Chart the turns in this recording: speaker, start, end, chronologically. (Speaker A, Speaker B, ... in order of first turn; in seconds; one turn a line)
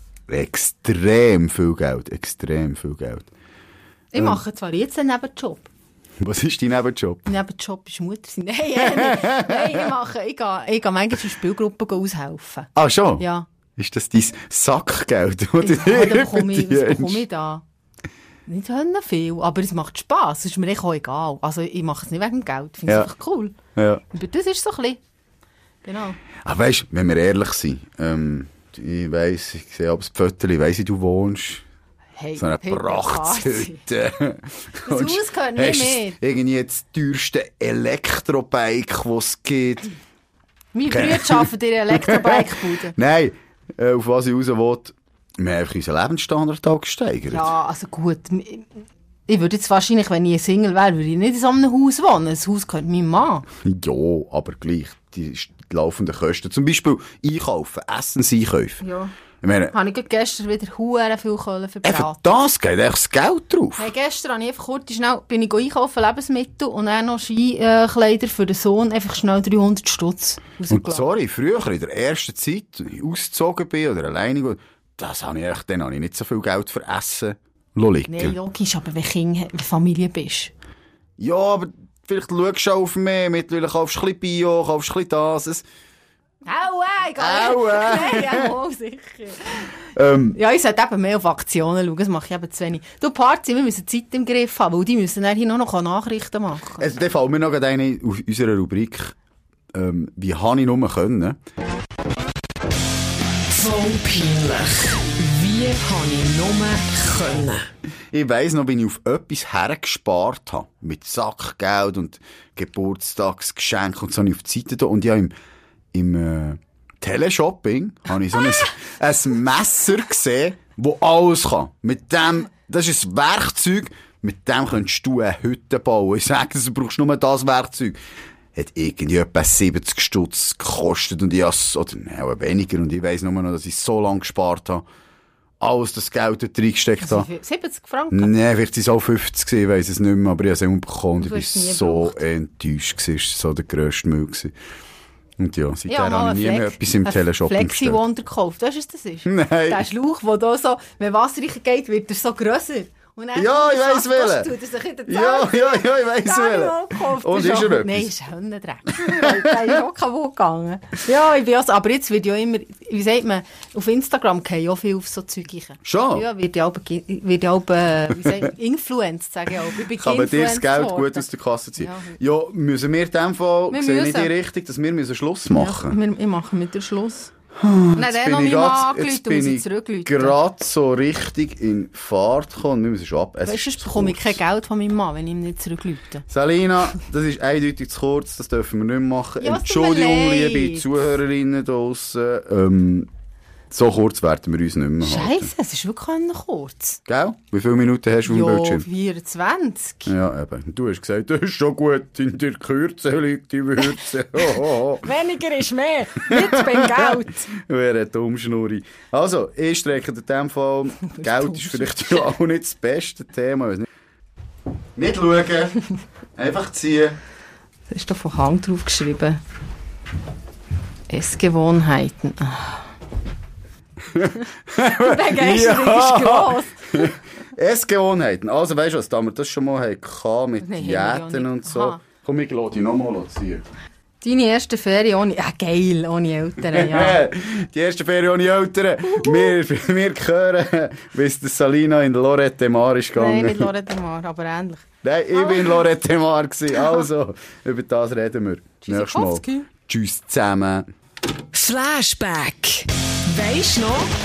Speaker A: 0.3-3.3
Speaker B: 4.1-5.7
Speaker A: 6.2-7.3
Speaker B: 7.2-13.5
Speaker A: 8.8-9.9
Speaker A: 12.7-17.2
Speaker B: 15.6-17.6
Speaker B: 18.4-23.5
Speaker A: 23.7-24.0
Speaker B: 24.1-25.0
Speaker B: 25.8-26.2
Speaker A: 26.4-31.6
Speaker B: 32.1-33.8
Speaker A: 32.4-39.9
Speaker B: 34.9-36.2
Speaker B: 40.7-42.9
Speaker A: 40.9-47.5
Speaker B: 47.3-48.7
Speaker B: 49.3-53.5
Speaker A: 53.6-58.8
Speaker B: 58.8-59.1
Speaker A: 59.4-59.7
Speaker B: 59.7-62.3
Speaker A: 61.8-63.9
Speaker B: 63.8-71.0
Speaker A: 70.7-78.3
Speaker B: 78.1-80.5
Speaker A: 81.2-85.6
Speaker B: 86.4-89.7
Speaker A: 87.2-88.5
Speaker A: 89.9-90.4
Speaker B: 90.3-97.0
Speaker A: 96.8-99.1
Speaker A: 99.7-101.4
Speaker B: 103.5-106.4
Speaker C: 103.6-107.6
Speaker A: 108.1-115.3
Speaker A: 115.9-128.0
Speaker A: 128.5-134.8
Speaker A: 135.6-137.3
Speaker B: 137.0-138.3
Speaker A: 138.1-144.5
Speaker B: 141.2-142.2
Speaker A: 145.4-148.0
Speaker B: 145.9-172.2
Speaker A: 149.2-149.8
Speaker A: 153.3-154.5
Speaker A: 155.1-158.1
Speaker A: 158.9-159.7
Speaker A: 165.8-166.2
Speaker A: 169.9-175.9
Speaker B: 173.7-174.3
Speaker B: 175.5-177.3
Speaker A: 177.6-184.4
Speaker B: 177.9-180.4
Speaker B: 183.4-186.2
Speaker A: 186.3-193.1
Speaker B: 189.4-190.9
Speaker A: 193.7-195.5
Speaker B: 195.0-197.0
Speaker A: 197.1-198.8
Speaker B: 198.2-200.1
Speaker A: 200.1-205.1
Speaker B: 203.9-207.5
Speaker C: 206.2-206.6
Speaker A: 206.3-213.9
Speaker B: 211.1-212.2
Speaker A: 214.9-215.8
Speaker A: 216.3-217.2
Speaker B: 217.9-219.4
Speaker B: 221.1-222.9
Speaker A: 224.1-233.6
Speaker B: 225.0-227.1
Speaker B: 230.6-232.0
Speaker B: 234.2-237.2
Speaker A: 236.7-243.7
Speaker B: 239.1-239.6
Speaker B: 243.1-244.8
Speaker A: 245.0-250.9
Speaker B: 245.4-245.8
Speaker B: 248.8-249.7
Speaker C: 251.5-254.1